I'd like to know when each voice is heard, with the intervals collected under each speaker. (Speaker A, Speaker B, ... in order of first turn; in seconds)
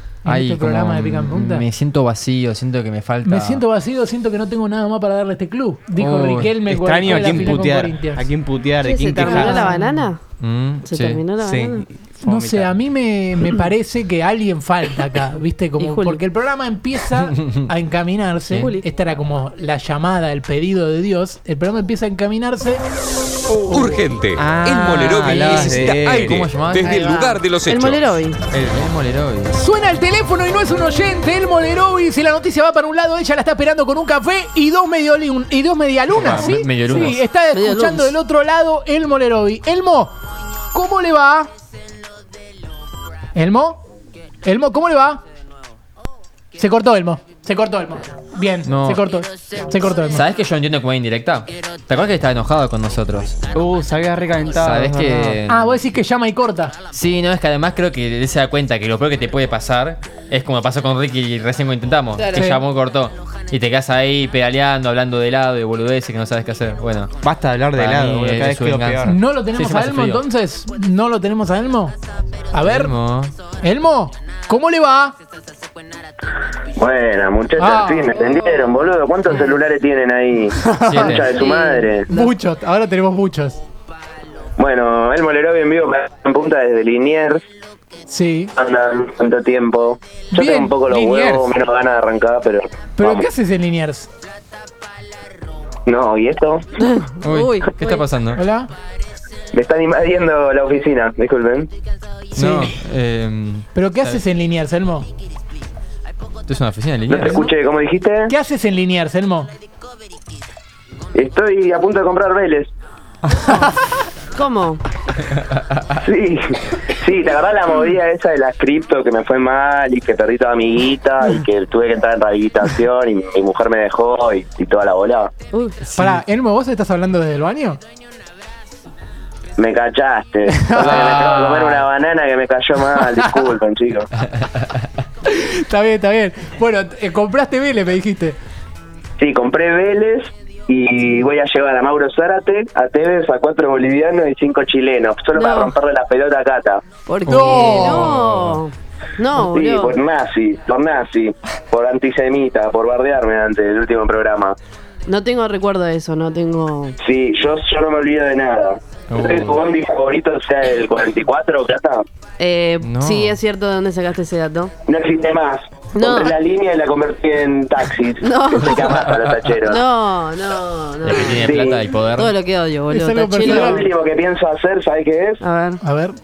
Speaker A: 0.2-1.7, 3.2-8.3, 9.2-10.1, 12.2-22.8, 29.5-40.1, 40.7-41.5, 43.4-43.8, 44.4-45.2, 46.6-50.2, 55.5-56.8, 62.3-62.6, 69.0-72.0, 72.5-72.9, 73.6-75.2, 77.6-78.2, 80.5-81.2, 82.1-83.6, 88.1-88.5, 90.3-91.5, 93.0-94.1, 98.3-98.7, 102.3-102.8, 103.8-105.1, 108.3-109.5, 113.5-113.8, 125.9-127.8, 130.5-131.8, 133.0-133.3, 135.2-138.4, 147.3-148.2, 172.9-173.9, 175.8-176.2
Speaker B: 0.3-3.6, 6.0-7.6, 10.4-11.2, 25.1-26.9, 28.6-29.6, 36.1-37.2, 48.7-49.0, 50.1-53.4, 54.6-55.8, 56.9-67.1, 67.8-70.2, 72.6-73.3, 80.8-81.3, 97.2-98.4, 102.3-104.2, 106.5-107.5, 147.3-148.6, 159.1-159.6, 162.8-163.4, 171.0-172.3
Speaker C: 6.7-9.7, 11.4-12.7, 24.4-26.5, 28.5-28.9, 53.5-55.4, 67.2-69.2
Speaker D: 8.8-10.2, 10.8-11.9, 15.8-16.2, 26.8-28.4, 37.5-38.1, 81.3-82.3, 96.8-98.0, 114.3-114.8, 125.5-125.8, 145.3-145.8, 147.1-150.0, 155.1-157.0, 162.4-164.7, 165.9-166.3, 168.2-169.0, 169.6-173.9, 175.4-175.8
Speaker E: 23.5-28.2
Speaker F: 76.8-82.1, 84.6-87.4, 88.6-93.3, 95.9-96.7, 99.5-101.7, 107.1-108.3, 111.2-112.7, 116.0-125.3, 129.6-134.1, 139.2-146.8, 149.3-154.6, 157.0-162.1, 164.9-169.8, 171.1-171.8, 173.4-175.4